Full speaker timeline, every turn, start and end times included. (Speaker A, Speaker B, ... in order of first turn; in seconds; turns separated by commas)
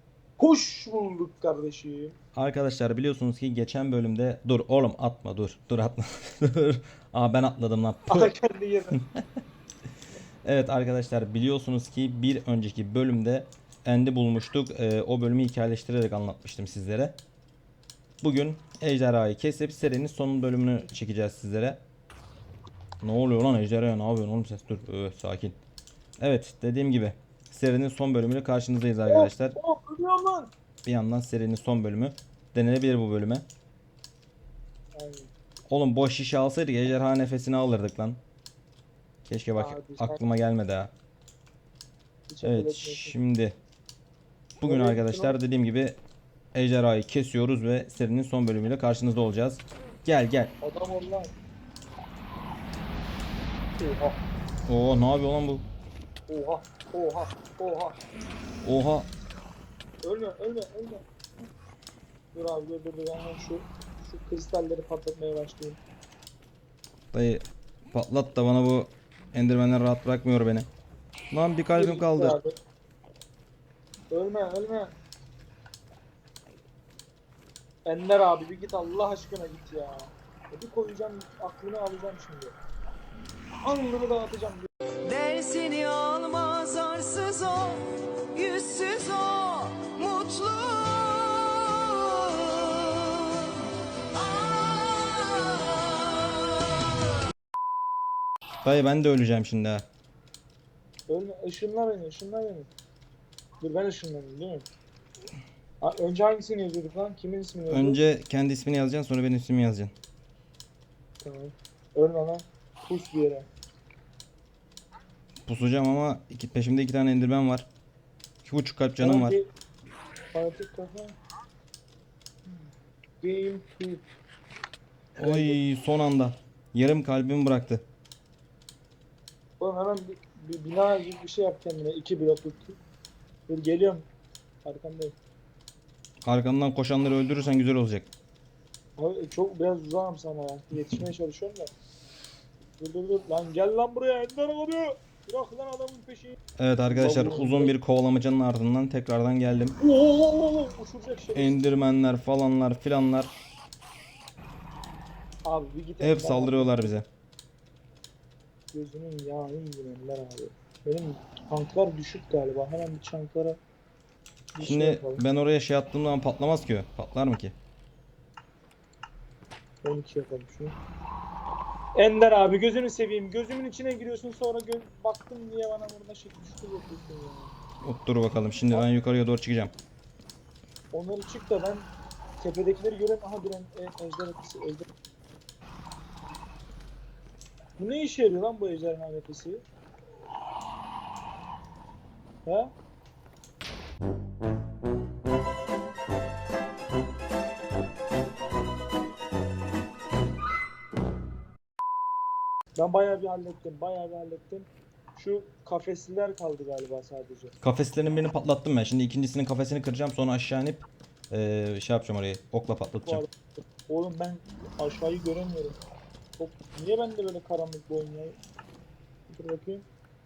Speaker A: 0.4-2.2, Speaker B: 2.4-8.3, Speaker A: 8.1-9.0, Speaker B: 9.0-9.2, Speaker B: 10.4-17.2, Speaker B: 18.2-21.8, Speaker B: 23.0-25.6, Speaker B: 26.2-29.6, Speaker A: 29.1-30.5, Speaker B: 30.9-33.5, Speaker A: 34.9-35.3, Speaker B: 35.7-38.2, Speaker B: 39.3-40.9, Speaker A: 39.6-40.2, Speaker A: 42.3-43.2, Speaker B: 42.4-43.6, Speaker B: 44.6-46.0, Speaker A: 44.6-45.4, Speaker B: 46.5-50.5, Speaker A: 50.6-51.3, Speaker A: 53.8-54.2, Speaker B: 54.7-55.7, Speaker A: 56.3-58.0, Speaker B: 58.6-59.1, Speaker A: 60.0-61.0, Speaker A: 62.3-65.8, Speaker B: 67.1-70.7, Speaker B: 71.3-72.4, Speaker A: 71.7-72.6, Speaker A: 74.1-75.0, Speaker A: 77.8-82.5, Speaker A: 83.6-84.7, Speaker C: 85.0-93.4, Speaker C: 94.4-95.5, Speaker B: 98.6-99.9, Speaker A: 101.1-102.7, Speaker A: 103.6-104.7, Speaker A: 105.8-108.0, Speaker B: 107.7-109.9, Speaker A: 111.2-113.5, Speaker B: 115.5-117.7, Speaker B: 118.4-119.4, Speaker A: 119.0-119.5, Speaker A: 120.3-121.2, Speaker A: 123.2-124.0, Speaker B: 125.2-127.8, Speaker A: 125.2-125.6, Speaker A: 129.6-132.8, Speaker A: 133.5-134.1, Speaker A: 134.6-135.2, Speaker B: 136.3-138.1, Speaker A: 139.0-141.7, Speaker A: 142.8-147.7, Speaker B: 146.6-149.8, Speaker A: 149.8-151.7, Speaker B: 151.3-153.3, Speaker A: 155.4-157.0, Speaker B: 156.0-157.1, Speaker A: 158.7-163.6, Speaker A: 164.5-165.2, Speaker B: 164.6-167.6, Speaker A: 169.8-170.8, Speaker A: 171.9-177.6, Speaker B: 177.8-179.7, Speaker A: 178.7-179.0, Speaker A: 180.9-181.9, Speaker A: 182.4-184.9, Speaker A: 187.8-189.6, Speaker A: 192.4-192.7, Speaker A: 202.8-207.6, Speaker B: 207.6-213.3, Speaker A: 213.0-215.8, Speaker A: 216.4-218.4, Speaker A: 219.3-219.9